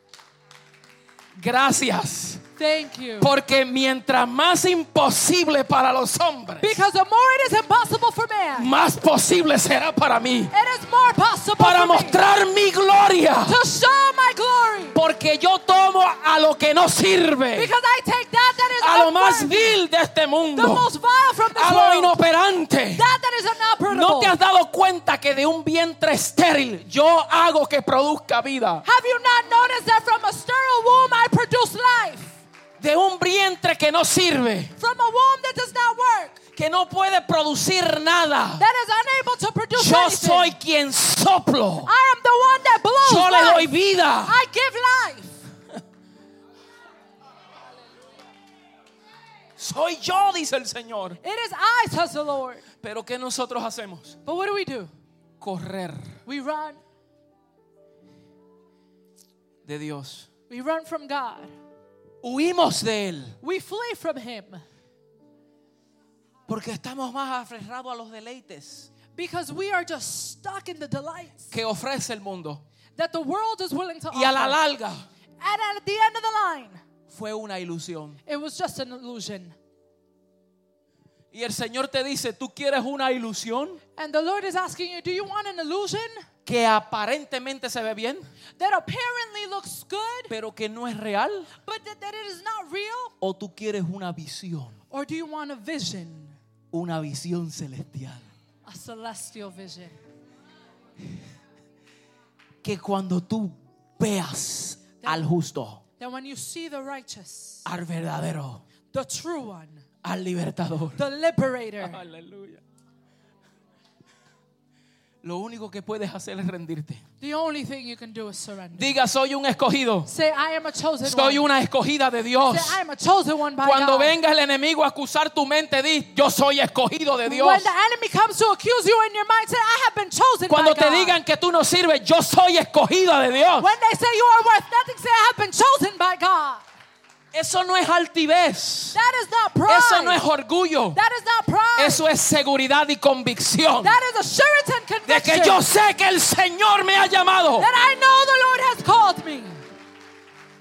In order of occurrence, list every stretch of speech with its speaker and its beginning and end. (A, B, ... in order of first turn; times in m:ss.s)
0:01.4-0:02.4 A
0:02.6-0:03.3 B
0:03.2-0:06.8 A
0:06.6-0:08.7 B
0:08.6-0:10.5 A
0:10.5-0:12.2 B
0:11.6-0:13.6 A
0:13.5-0:15.0 B
0:14.9-0:17.7 A
0:17.5-0:19.8 B
0:18.8-0:20.9 A
0:20.6-0:22.2 B
0:21.5-0:23.1 A
0:23.0-0:24.4 B
0:23.9-0:28.8 A
0:28.8-0:32.4 B
0:32.8-0:34.7 A
0:34.8-0:36.4 B
0:36.6-0:38.7 A
0:38.6-0:40.6 B
0:39.8-0:41.9 A
0:41.8-0:45.5 B
0:43.0-0:44.4 A
0:49.6-0:51.2 A
0:51.2-0:52.7 B
0:52.8-0:54.2 A
0:54.2-0:54.9 B
0:55.4-0:56.2 A
0:56.3-0:56.8 B
0:59.6-1:00.3 A
1:00.5-1:01.5 B
1:02.2-1:03.4 A
1:03.4-1:04.6 B
1:06.5-1:08.9 A
1:09.1-1:11.5 B
1:11.5-1:12.6 A
1:13.0-1:14.6 B
1:14.1-1:15.0 A
1:15.4-1:16.8 B
1:17.1-1:18.2 A
1:18.3-1:19.6 B
1:21.3-1:23.8 A
1:24.0-1:26.3 B
1:26.4-1:28.2 A
1:28.6-1:30.3 B
1:30.3-1:31.5 A
1:31.6-1:33.1 B
1:33.2-1:34.8 A
1:34.9-1:36.4 B
1:36.7-1:38.3 A
1:38.7-1:40.0 B
1:42.6-1:45.8 A
1:46.0-1:47.6 B
1:47.6-1:48.6 A
1:48.9-1:49.8 B
1:50.0-1:51.0 A
1:51.0-1:52.0 B
1:51.8-1:52.6 A
1:55.2-1:57.0 A
1:57.2-1:58.9 B
1:58.7-2:00.1 A
2:00.1-2:01.4 B
2:01.0-2:02.8 A
2:02.5-2:04.2 B
2:03.6-2:07.7 A
2:07.2-2:11.2 B
2:10.5-2:13.7 A
2:13.6-2:16.6 B
2:17.3-2:19.0 A
2:18.9-2:20.2 B
2:19.7-2:21.0 A
2:21.0-2:22.1 B
2:21.8-2:24.0 A
2:23.8-2:25.6 B
2:25.1-2:27.7 A
2:27.6-2:29.6 B